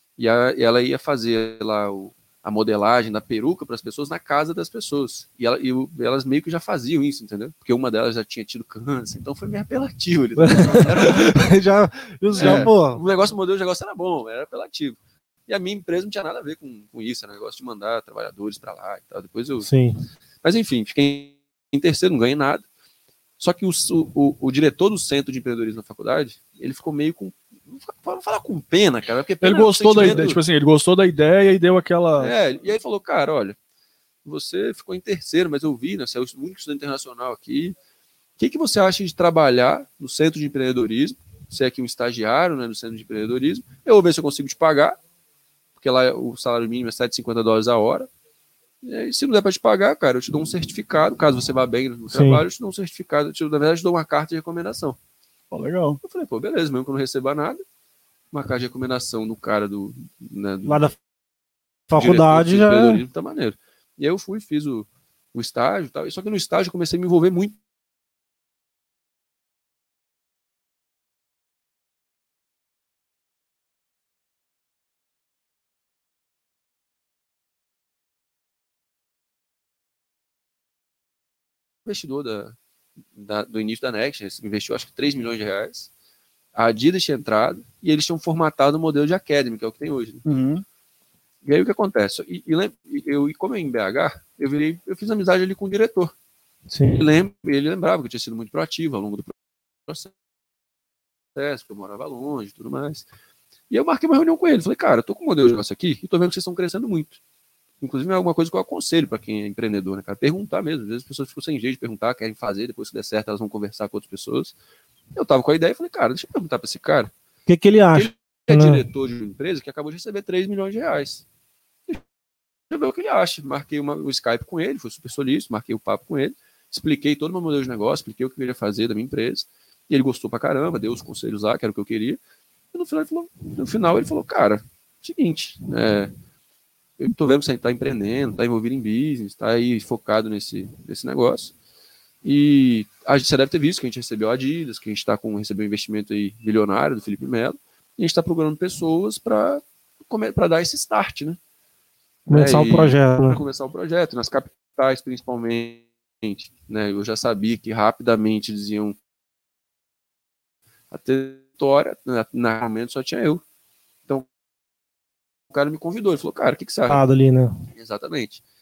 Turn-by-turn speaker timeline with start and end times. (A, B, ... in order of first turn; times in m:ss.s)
0:00.2-0:11.5 A
0:10.4-0:13.0 B
0:12.3-0:19.7 A
0:19.6-0:20.0 B
0:20.4-0:22.6 A
0:23.4-0:30.4 A
0:29.4-0:32.3 C
0:32.2-0:33.6 A
0:34.2-0:37.8 A
0:38.4-0:45.0 A
0:45.8-0:48.1 A
0:48.8-0:55.0 A
0:52.1-0:52.4 B
0:55.5-0:56.0 C
0:56.0-0:57.6 A
0:58.3-1:00.8 A
1:00.6-1:01.0 B
1:01.9-1:03.0 B
1:01.9-1:07.6 A
1:21.8-1:22.5 A
1:23.1-1:25.9 A
1:26.5-1:30.2 A
1:30.2-1:30.6 C
1:31.4-1:36.1 A
1:36.7-1:37.0 B
1:36.9-1:39.3 A
1:39.9-1:40.1 A
1:41.3-1:43.1 A
1:43.7-1:47.2 A
1:47.8-1:54.5 A
1:55.1-1:57.1 A
1:57.5-1:58.8 B
1:57.9-2:01.2 A
2:02.7-2:12.2 A
2:12.7-2:16.1 A
2:17.0-2:21.5 A
2:22.2-2:31.4 A
2:32.3-2:33.4 B
2:32.3-2:39.0 A
2:40.9-2:43.4 A
2:45.5-2:47.0 A
2:46.9-2:47.6 B
2:47.7-2:48.4 A